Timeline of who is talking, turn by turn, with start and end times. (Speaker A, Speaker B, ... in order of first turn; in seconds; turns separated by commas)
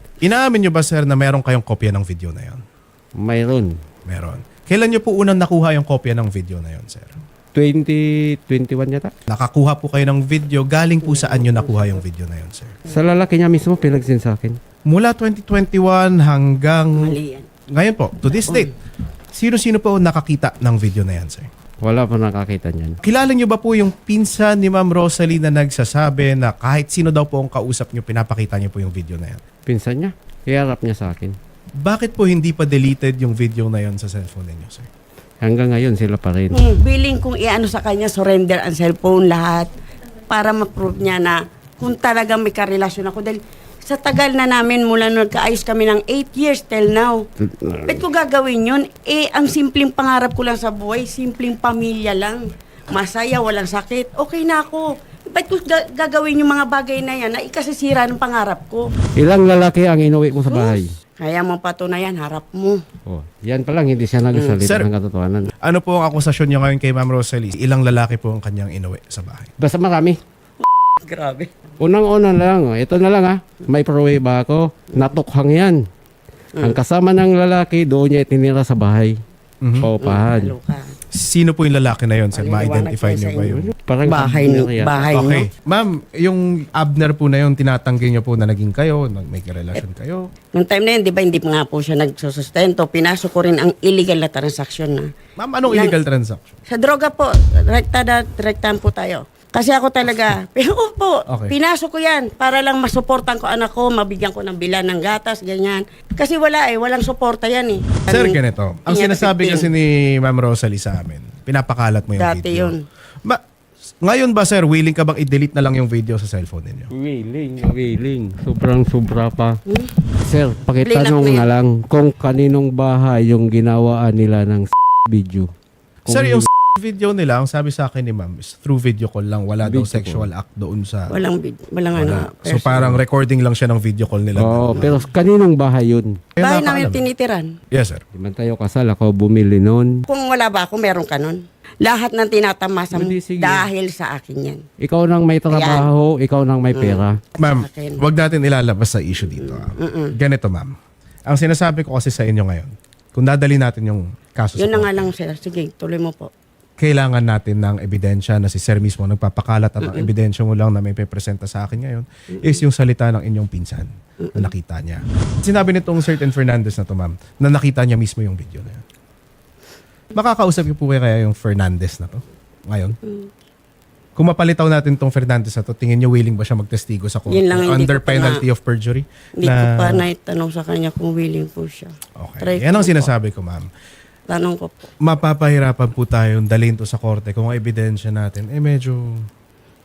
Speaker A: 0.2-2.6, Speaker B: 3.2-3.8, Speaker A: 4.1-7.2, Speaker B: 7.5-9.1, Speaker A: 9.3-12.8, Speaker C: 11.0-12.0, Speaker B: 12.9-14.6, Speaker A: 14.9-17.2, Speaker C: 16.9-17.5, Speaker A: 17.7-18.7, Speaker A: 19.3-21.5, Speaker B: 21.8-23.0, Speaker A: 23.0-29.4, Speaker B: 29.7-31.4, Speaker A: 31.8-34.9, Speaker B: 35.4-36.6, Speaker C: 36.5-39.7, Speaker C: 40.3-47.3, Speaker B: 47.4-48.1, Speaker C: 47.9-58.9, Speaker B: 59.2-61.0, Speaker C: 60.5-62.8, Speaker B: 63.1-65.5, Speaker C: 64.3-64.6, Speaker A: 64.6-64.9, Speaker A: 65.6-69.5, Speaker B: 69.6-70.2, Speaker C: 70.6-71.6, Speaker B: 71.8-75.8, Speaker B: 76.6-79.2, Speaker A: 79.6-79.9, Speaker B: 79.8-80.5, Speaker C: 80.0-81.0, Speaker A: 81.1-83.7, Speaker C: 82.3-85.5, Speaker B: 83.7-85.1, Speaker A: 85.1-90.3, Speaker C: 90.5-95.1, Speaker A: 95.4-96.6, Speaker C: 95.7-96.0, Speaker C: 96.7-109.7, Speaker A: 101.3-101.5, Speaker A: 108.1-112.7, Speaker C: 112.2-112.9, Speaker A: 114.0-116.9, Speaker B: 116.9-119.6, Speaker C: 119.7-120.0, Speaker B: 120.2-125.5, Speaker C: 120.8-121.5, Speaker B: 126.0-126.5, Speaker A: 126.1-131.2, Speaker B: 129.6-130.3, Speaker C: 131.1-132.9, Speaker A: 131.9-135.0, Speaker B: 134.4-136.2, Speaker A: 136.4-137.1, Speaker C: 136.4-137.6, Speaker A: 137.7-138.0, Speaker B: 138.1-140.0, Speaker C: 140.1-144.6, Speaker B: 142.9-143.7, Speaker B: 144.8-147.2, Speaker C: 145.5-145.9, Speaker C: 146.7-148.0, Speaker A: 147.4-150.7, Speaker C: 149.2-150.1, Speaker A: 151.3-155.1, Speaker C: 154.6-156.3, Speaker A: 156.8-168.8, Speaker C: 159.8-160.1, Speaker C: 164.2-164.5, Speaker A: 170.1-173.0, Speaker C: 173.0-173.3, Speaker A: 174.2-180.1, Speaker C: 177.3-178.4, Speaker C: 179.4-183.1, Speaker A: 182.2-183.7, Speaker C: 184.3-184.9, Speaker A: 185.0-189.3